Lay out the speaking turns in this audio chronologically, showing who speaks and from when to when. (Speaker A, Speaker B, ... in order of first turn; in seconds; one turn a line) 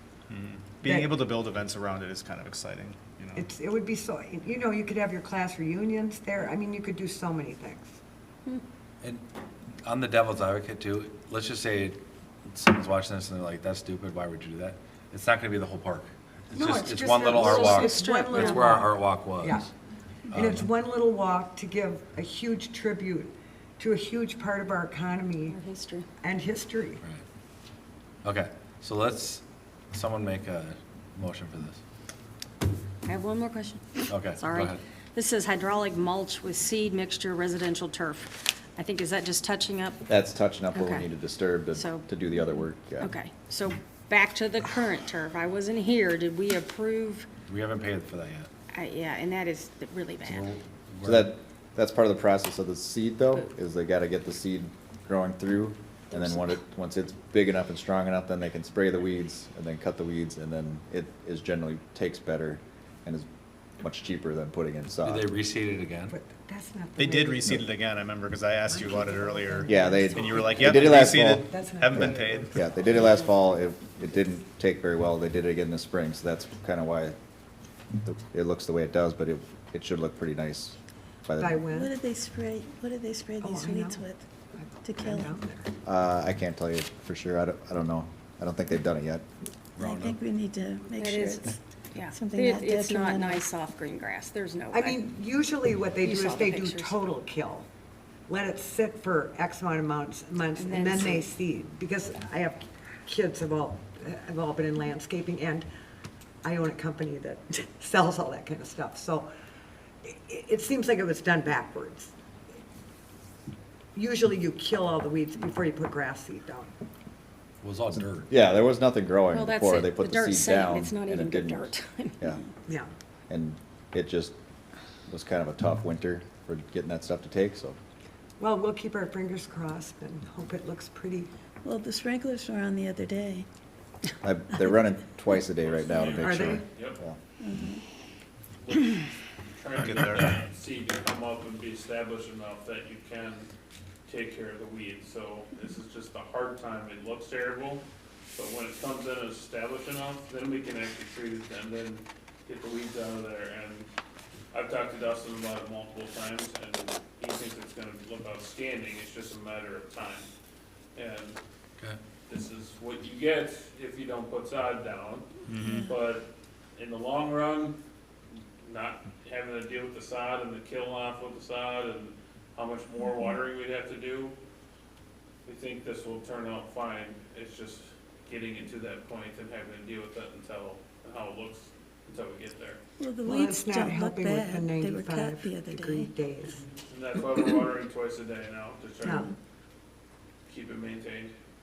Speaker A: 0.3-3.5
Speaker B: 0.8-1.1
Speaker B: 3.3-8.0
Speaker C: 9.8-19.7
Speaker B: 16.5-19.7
Speaker D: 17.3-18.8
Speaker B: 20.3-25.6
Speaker C: 20.3-20.7
Speaker D: 25.5-26.1
Speaker B: 26.2-27.0
Speaker C: 28.2-31.8
Speaker D: 33.0-40.0
Speaker C: 34.1-34.8
Speaker E: 40.1-43.1
Speaker D: 40.7-41.1
Speaker D: 41.7-42.1
Speaker D: 43.0-47.3
Speaker C: 47.5-48.5
Speaker D: 48.7-50.5
Speaker C: 50.2-51.3
Speaker E: 51.0-63.2
Speaker D: 56.1-56.5
Speaker E: 63.8-65.3
Speaker C: 65.0-66.2
Speaker B: 66.1-67.6
Speaker A: 67.0-72.5
Speaker B: 68.7-72.5
Speaker E: 69.7-77.2
Speaker E: 78.0-81.5
Speaker B: 81.4-81.9
Speaker F: 81.7-84.2
Speaker B: 83.4-85.7
Speaker F: 84.8-85.3
Speaker E: 85.8-89.2
Speaker F: 89.8-91.6
Speaker C: 89.8-90.1
Speaker D: 91.0-95.0
Speaker F: 92.1-93.5
Speaker B: 94.7-97.7
Speaker D: 96.0-97.0
Speaker B: 98.3-105.7
Speaker D: 100.6-101.3
Speaker B: 106.4-109.3
Speaker B: 110.0-112.1
Speaker B: 113.9-116.7
Speaker C: 117.6-118.3
Speaker E: 117.9-122.4
Speaker D: 119.3-122.3
Speaker E: 123.3-124.3
Speaker E: 125.1-127.8
Speaker B: 128.4-131.3
Speaker F: 131.6-133.4
Speaker E: 134.2-137.2
Speaker G: 135.6-137.0
Speaker F: 136.0-136.3
Speaker B: 136.2-136.6
Speaker F: 137.4-137.8
Speaker G: 138.6-139.0
Speaker G: 139.5-143.5
Speaker A: 139.8-140.3
Speaker G: 144.1-147.8
Speaker G: 148.3-153.9
Speaker G: 154.5-160.3
Speaker G: 160.9-161.4
Speaker G: 162.3-165.3
Speaker A: 165.5-165.8
Speaker F: 165.6-165.9
Speaker G: 165.8-167.8
Speaker G: 168.6-174.3
Speaker F: 173.0-173.3
Speaker G: 175.4-182.8
Speaker F: 183.0-186.1
Speaker B: 183.2-186.6
Speaker G: 186.8-189.3
Speaker B: 189.0-189.3
Speaker G: 190.5-191.3